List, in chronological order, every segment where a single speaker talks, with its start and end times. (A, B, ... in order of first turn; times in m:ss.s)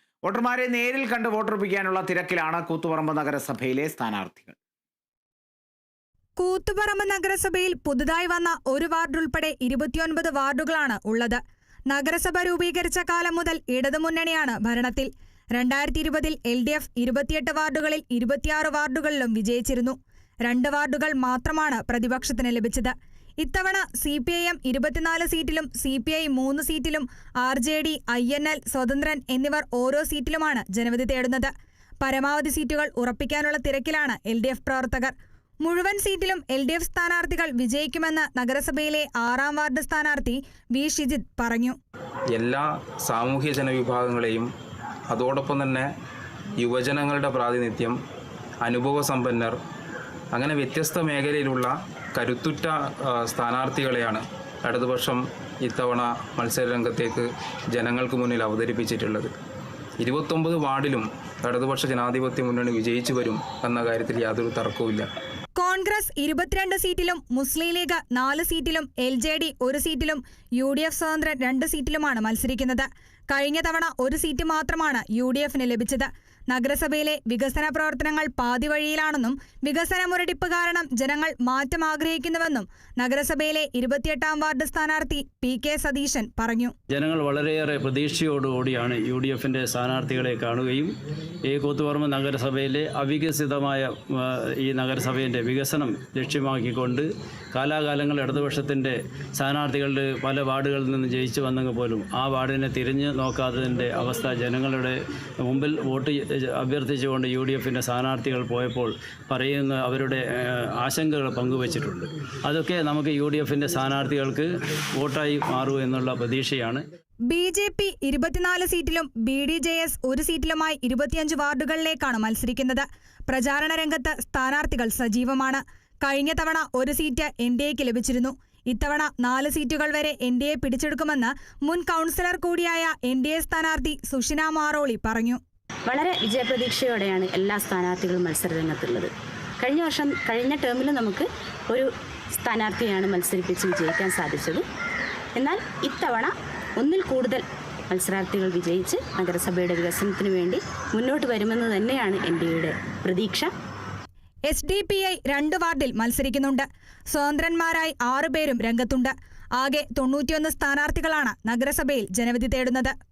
0:00.2-0:04.6 A
0:06.4-0:41.8 B
0:42.3-0:44.5 C
0:45.1-0:45.9 C
0:46.6-0:48.0 C
0:48.6-0:49.6 C
0:50.3-0:59.3 C
1:00.0-1:05.1 C
1:05.6-1:26.7 B
1:26.9-1:30.9 D
1:31.4-1:56.8 D
1:57.3-2:15.4 B
2:15.9-2:24.6 E
2:25.4-2:33.5 E
2:34.5-2:42.9 B